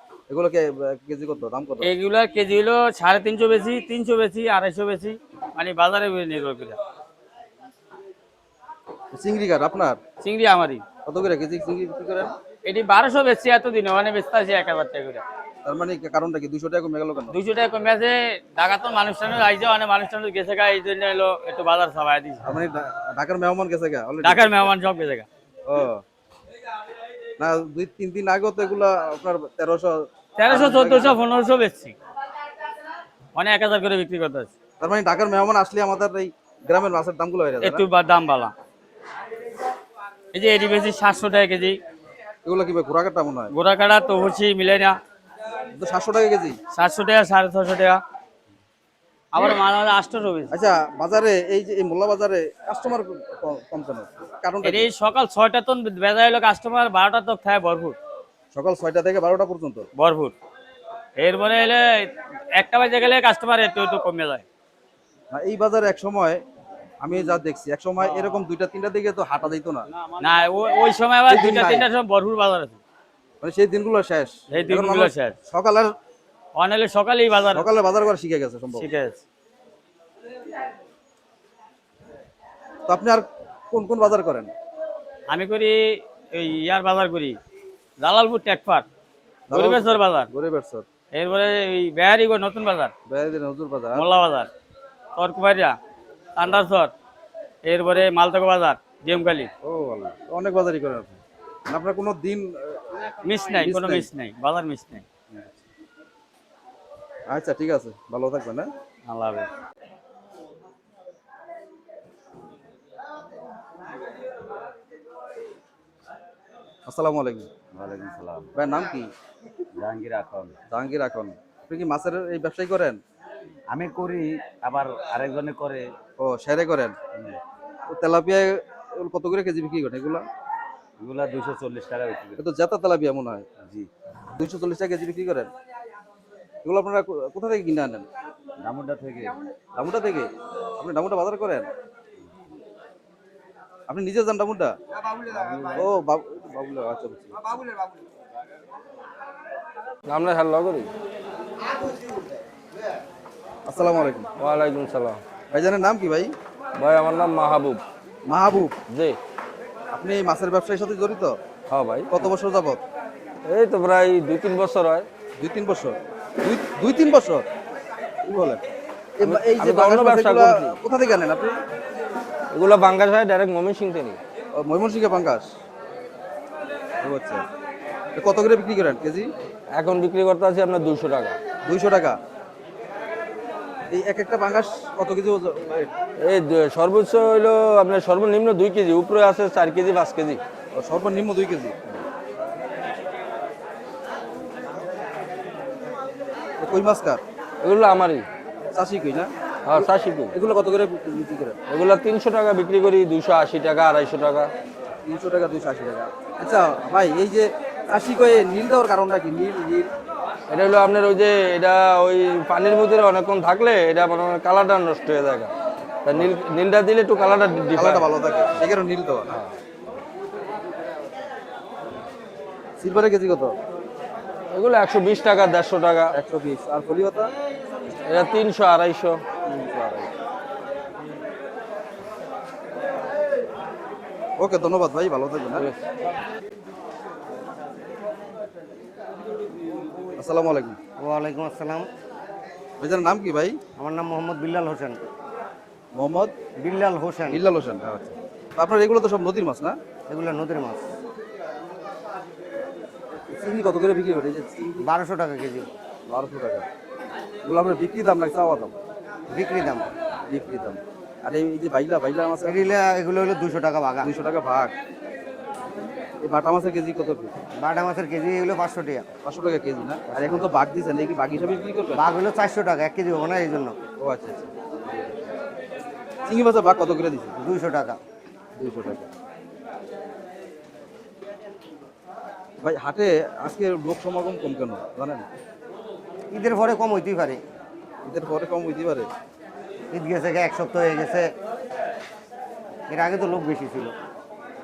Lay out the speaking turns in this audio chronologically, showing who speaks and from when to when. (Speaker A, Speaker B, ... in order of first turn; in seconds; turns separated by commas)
Speaker A: 0.3-1.9, Speaker B: 1.8-6.8, Speaker A: 9.1-10.0, Speaker B: 10.2-10.8, Speaker A: 11.1-12.3, Speaker B: 12.7-15.2, Speaker A: 15.7-17.4, Speaker B: 17.3-22.4, Speaker A: 22.4-24.5, Speaker B: 24.2-25.3, Speaker A: 25.7-26.0, Speaker A: 27.4-31.2, Speaker B: 30.4-32.0, Speaker B: 33.4-34.5, Speaker A: 34.8-37.9, Speaker B: 37.6-38.5, Speaker B: 40.3-41.8, Speaker A: 42.5-43.5, Speaker B: 43.5-45.0, Speaker A: 45.7-46.6, Speaker B: 46.7-48.0, Speaker B: 49.3-50.5, Speaker A: 50.5-54.9, Speaker B: 54.6-58.0, Speaker A: 58.5-59.9, Speaker B: 60.0-60.4, Speaker B: 61.2-64.5, Speaker A: 65.3-66.4, Speaker A: 67.0-69.9, Speaker B: 68.0-68.5, Speaker B: 70.2-72.8, Speaker A: 71.3-71.9, Speaker A: 73.4-75.9, Speaker B: 74.5-75.4, Speaker B: 76.6-77.7, Speaker A: 77.5-78.9, Speaker B: 78.7-79.2, Speaker A: 82.9-84.5, Speaker B: 85.3-87.4, Speaker B: 88.0-88.9, Speaker A: 89.5-90.9, Speaker B: 89.5-90.3, Speaker B: 91.1-92.9, Speaker A: 93.1-94.0, Speaker B: 93.9-94.5, Speaker B: 95.2-95.8, Speaker B: 96.4-96.9, Speaker B: 97.7-99.5, Speaker A: 99.6-101.2, Speaker A: 101.7-103.0, Speaker B: 103.2-105.0, Speaker A: 103.5-104.1, Speaker A: 107.3-108.7, Speaker B: 109.1-109.5, Speaker A: 116.9-117.5, Speaker C: 117.7-118.5, Speaker A: 118.5-119.1, Speaker C: 119.7-120.6, Speaker A: 120.7-123.0, Speaker C: 123.7-125.9, Speaker A: 126.2-127.0, Speaker A: 127.9-130.2, Speaker C: 131.0-132.4, Speaker A: 132.4-133.5, Speaker C: 133.6-133.9, Speaker A: 134.3-135.5, Speaker A: 136.6-138.1, Speaker C: 138.6-139.4, Speaker A: 139.8-141.7, Speaker A: 143.9-144.7, Speaker A: 145.6-147.3, Speaker D: 150.1-150.9, Speaker A: 153.7-154.3, Speaker D: 154.4-155.2, Speaker A: 155.5-156.3, Speaker D: 156.8-157.8, Speaker A: 158.3-158.7, Speaker D: 158.9-159.2, Speaker A: 159.9-161.4, Speaker D: 161.7-162.2, Speaker A: 162.1-162.8, Speaker D: 163.5-165.1, Speaker A: 165.4-167.5, Speaker A: 168.2-168.6, Speaker A: 169.2-171.6, Speaker D: 169.2-170.8, Speaker D: 172.5-174.2, Speaker A: 174.6-175.5, Speaker A: 177.0-177.4, Speaker A: 178.2-179.3, Speaker D: 179.7-181.4, Speaker A: 181.7-182.2, Speaker A: 183.9-185.9, Speaker D: 186.2-190.4, Speaker A: 190.7-192.0, Speaker A: 196.6-197.2, Speaker D: 197.6-198.3, Speaker A: 198.7-201.6, Speaker D: 199.7-200.3, Speaker D: 201.7-204.5, Speaker A: 205.1-209.9, Speaker D: 210.5-215.5, Speaker D: 216.0-218.1, Speaker A: 217.8-219.3, Speaker A: 222.8-223.6, Speaker D: 224.5-226.1, Speaker A: 226.1-227.3, Speaker D: 228.1-229.2, Speaker A: 229.5-230.1, Speaker A: 234.4-235.7, Speaker A: 240.2-240.8, Speaker E: 241.0-241.9, Speaker A: 242.8-243.6, Speaker E: 243.8-245.0, Speaker A: 245.9-246.3, Speaker E: 246.6-247.4, Speaker A: 247.3-249.8, Speaker E: 250.1-250.8, Speaker A: 253.3-254.8, Speaker E: 254.8-255.7, Speaker A: 256.1-256.7, Speaker A: 257.5-258.8, Speaker E: 259.3-259.9, Speaker A: 260.3-262.7, Speaker E: 262.4-264.1, Speaker A: 264.0-264.7, Speaker A: 266.2-267.3, Speaker E: 267.6-269.1, Speaker A: 269.2-272.0, Speaker E: 271.9-273.8, Speaker A: 274.0-274.5, Speaker A: 276.2-277.3, Speaker E: 277.4-278.0, Speaker A: 278.6-279.1, Speaker A: 282.6-285.3, Speaker E: 286.3-287.4, Speaker A: 288.1-289.1, Speaker E: 289.9-291.3, Speaker E: 292.9-293.9